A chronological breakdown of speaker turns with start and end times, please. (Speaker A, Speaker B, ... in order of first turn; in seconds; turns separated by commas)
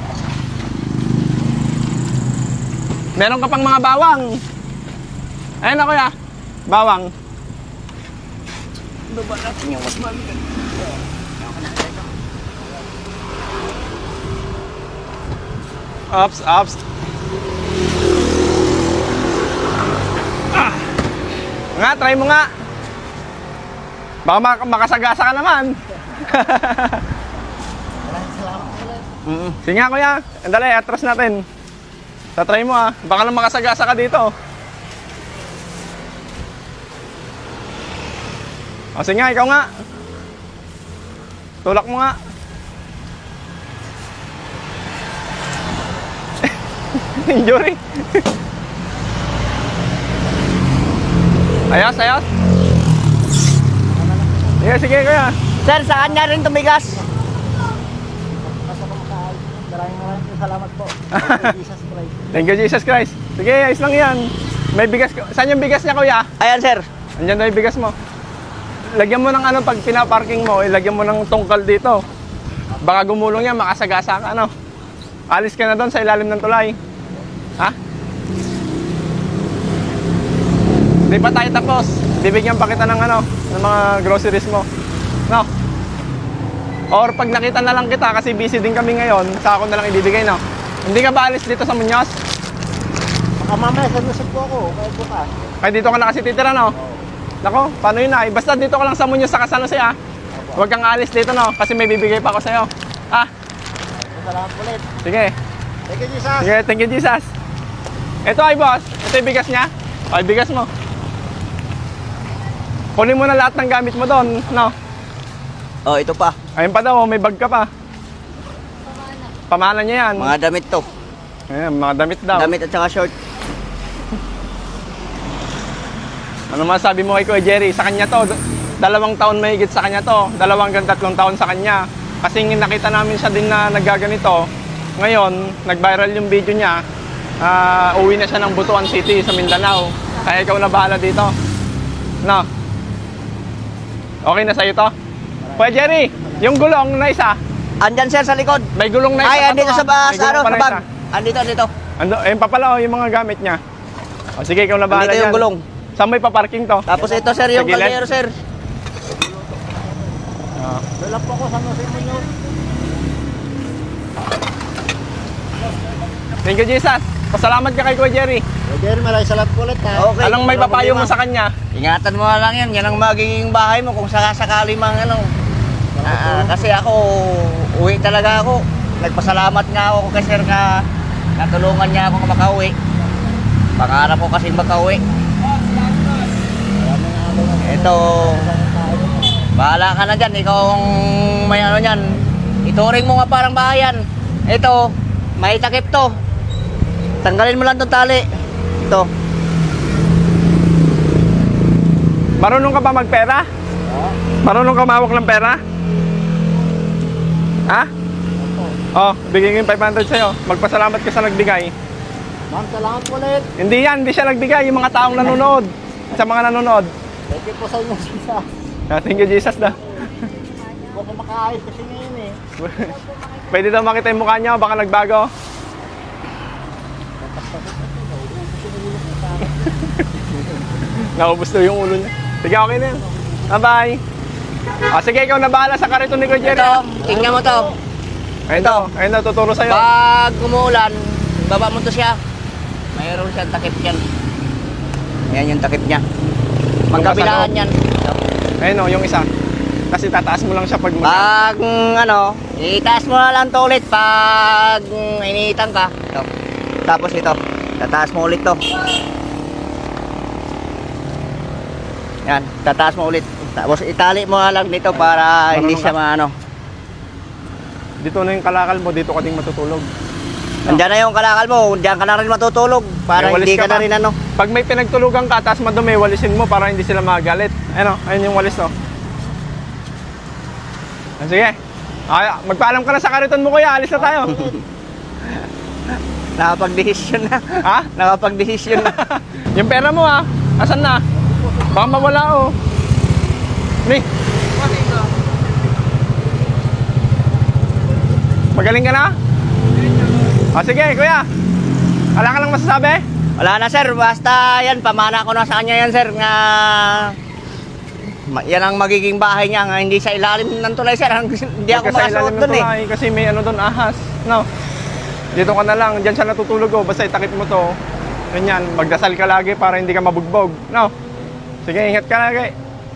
Speaker A: 3.2-4.3, Speaker A: 5.6-6.1, Speaker A: 6.7-7.1, Speaker B: 9.1-10.4, Speaker A: 16.1-16.8, Speaker A: 21.8-22.5, Speaker A: 24.3-27.0, Speaker C: 28.0-29.0, Speaker B: 29.2-29.6, Speaker A: 29.6-31.4, Speaker A: 32.4-34.3, Speaker A: 39.0-39.7, Speaker A: 41.6-42.1, Speaker A: 47.2-48.2, Speaker A: 51.7-52.2, Speaker C: 53.9-54.7, Speaker A: 54.6-55.3, Speaker B: 55.6-57.0, Speaker C: 55.9-56.4, Speaker C: 58.4-62.4, Speaker A: 61.1-61.5, Speaker A: 62.3-66.3, Speaker B: 66.4-66.9, Speaker A: 67.2-67.9, Speaker A: 69.0-72.0, Speaker A: 72.8-74.5, Speaker A: 75.3-76.8, Speaker A: 81.1-84.7, Speaker A: 86.9-92.1, Speaker C: 93.4-95.3, Speaker A: 95.6-96.8, Speaker C: 96.8-97.0, Speaker A: 97.4-100.0, Speaker C: 100.3-100.7, Speaker A: 100.6-103.3, Speaker C: 104.0-104.8, Speaker A: 105.0-105.3, Speaker C: 105.9-106.6, Speaker A: 106.4-107.3, Speaker A: 108.3-110.7, Speaker A: 113.0-114.7, Speaker B: 115.9-116.4, Speaker A: 116.6-117.7, Speaker A: 119.5-120.3, Speaker B: 120.2-120.9, Speaker A: 121.5-122.5, Speaker B: 122.3-123.1, Speaker A: 126.5-134.5, Speaker A: 135.0-136.8, Speaker A: 137.4-141.3, Speaker A: 144.2-144.9, Speaker C: 145.4-146.5, Speaker A: 145.6-147.4, Speaker B: 147.8-148.7, Speaker A: 148.8-150.8, Speaker B: 149.2-151.7, Speaker A: 152.0-153.6, Speaker A: 154.4-155.5, Speaker B: 154.9-155.6, Speaker A: 156.0-156.8, Speaker B: 156.9-158.3, Speaker C: 156.9-157.4, Speaker A: 157.5-158.0, Speaker A: 160.6-160.8, Speaker C: 161.0-162.3, Speaker A: 166.4-168.4, Speaker C: 168.7-170.1, Speaker B: 169.9-171.2, Speaker A: 170.2-171.5, Speaker B: 171.7-175.3, Speaker C: 175.9-176.8, Speaker B: 176.0-180.8, Speaker B: 181.4-182.8, Speaker B: 183.8-185.0, Speaker C: 186.8-189.3, Speaker B: 187.6-188.4, Speaker B: 189.6-192.1, Speaker B: 192.7-196.2, Speaker B: 197.2-198.3, Speaker B: 198.8-199.1, Speaker A: 202.4-203.5, Speaker C: 203.9-204.2, Speaker A: 204.4-205.6, Speaker C: 208.4-208.8, Speaker A: 208.9-211.7, Speaker C: 212.5-213.5, Speaker A: 213.6-216.9, Speaker C: 217.3-218.4, Speaker A: 218.9-219.9, Speaker C: 220.9-222.4, Speaker A: 222.6-223.0, Speaker A: 223.5-225.3, Speaker C: 227.2-229.7, Speaker A: 231.2-234.0, Speaker A: 234.9-236.8, Speaker B: 236.4-237.7, Speaker C: 237.0-237.8, Speaker A: 238.5-239.8, Speaker B: 238.5-238.9, Speaker B: 239.7-242.2, Speaker B: 242.9-244.0, Speaker B: 245.3-246.0, Speaker B: 246.9-248.2, Speaker A: 246.9-247.5, Speaker A: 248.6-249.3, Speaker A: 249.9-251.5, Speaker B: 251.0-256.3, Speaker B: 256.9-258.6, Speaker B: 262.3-266.3, Speaker A: 265.5-265.9, Speaker A: 268.0-269.9, Speaker B: 270.7-274.2, Speaker A: 273.2-273.9, Speaker A: 274.4-278.7, Speaker A: 281.2-281.6, Speaker A: 282.1-284.4, Speaker C: 283.9-284.6, Speaker B: 286.4-289.0, Speaker A: 287.6-287.9, Speaker A: 288.7-291.0, Speaker C: 291.2-291.7, Speaker A: 291.7-292.5, Speaker A: 298.6-299.1, Speaker A: 300.5-301.2, Speaker A: 302.2-303.0, Speaker B: 303.4-307.2, Speaker B: 308.3-312.7, Speaker A: 311.7-314.5, Speaker A: 315.4-317.7, Speaker A: 318.3-320.9, Speaker A: 321.6-322.5